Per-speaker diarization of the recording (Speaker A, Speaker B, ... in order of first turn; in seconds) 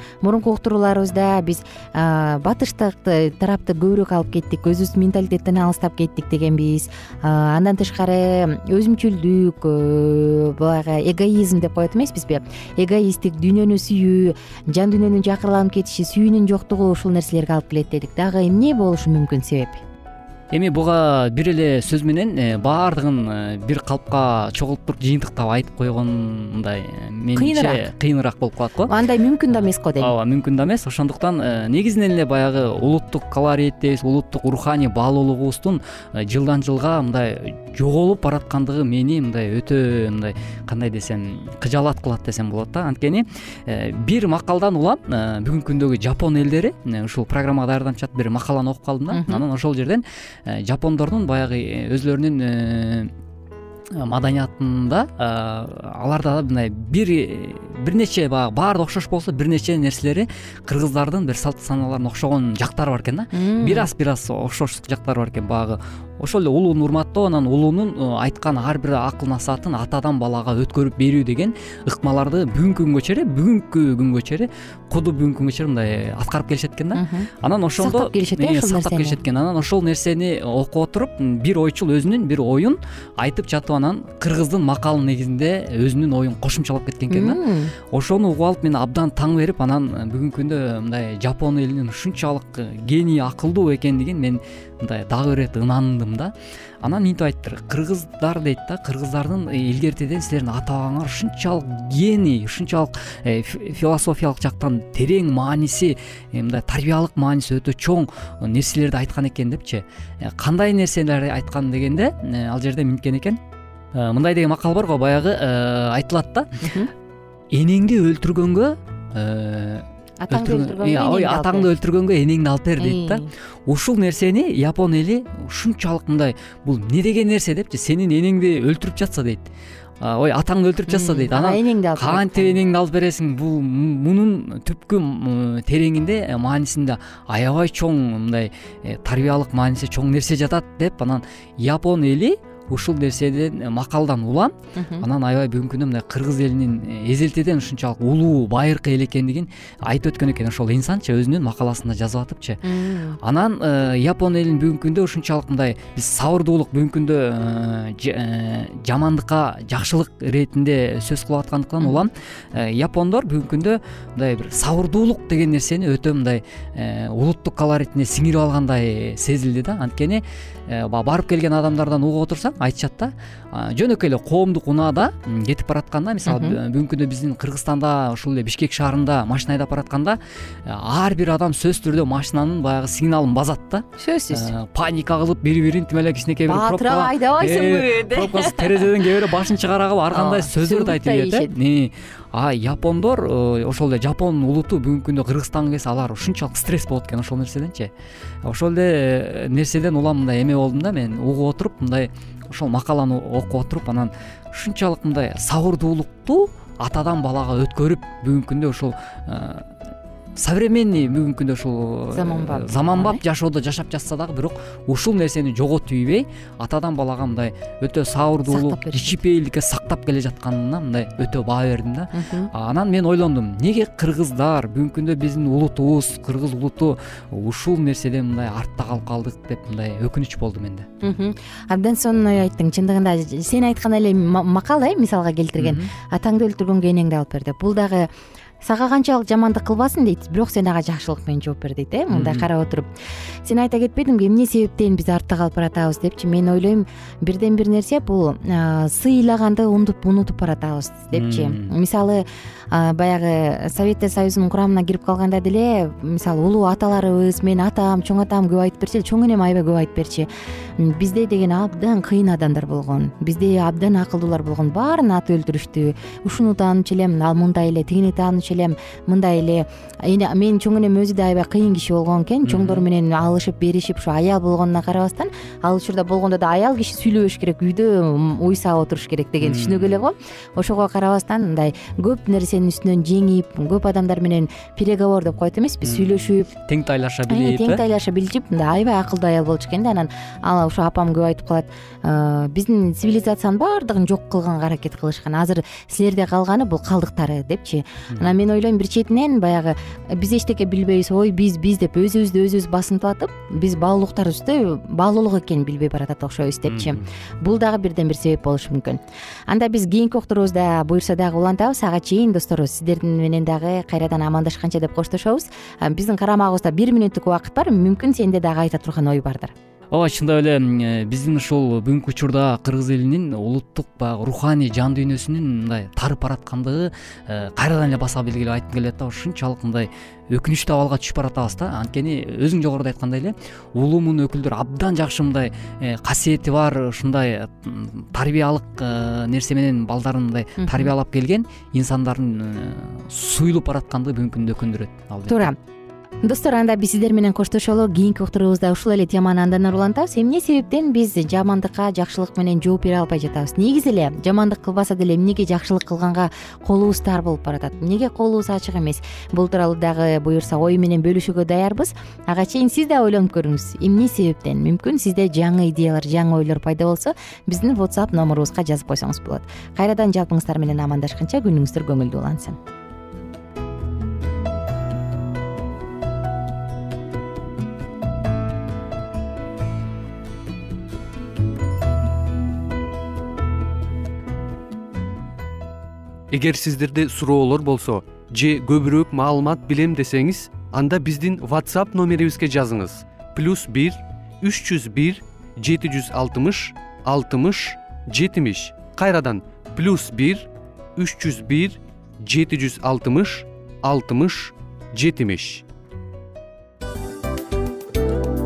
Speaker A: 0.2-19.8, 27.4-27.8, 28.9-30.1, 49.1-49.4, 63.3-63.9, 76.9-79.2, 87.1-87.7, 116.6-116.9, 120.2-121.7, 122.8-123.3, 130.9-132.6, 144.8-145.1, 152.6-153.2, 161.8-162.1, 176.2-176.6, 184.0-184.5, 186.5-188.9, 190.1-191.5, 212.1-213.2, 218.5-219.2, 222.1-222.5, 231.0-238.1, 238.6-242.9, 243.4-286.5, 287.3-319.5, 340.6-340.9, 345.3-345.6, 346.2-372.6
Speaker B: 20.5-28.9, 29.5-53.1, 54.0-113.4, 113.9-116.7, 117.5-129.5, 130.0-152.6, 153.2-197.9, 198.4-209.7, 210.4-230.9, 235.6-235.9, 242.1-242.5, 251.1-251.7, 272.4-272.8, 279.4-280.0, 285.8-287.8, 306.7-307.0, 319.9-345.5
Speaker C: 386.3-405.6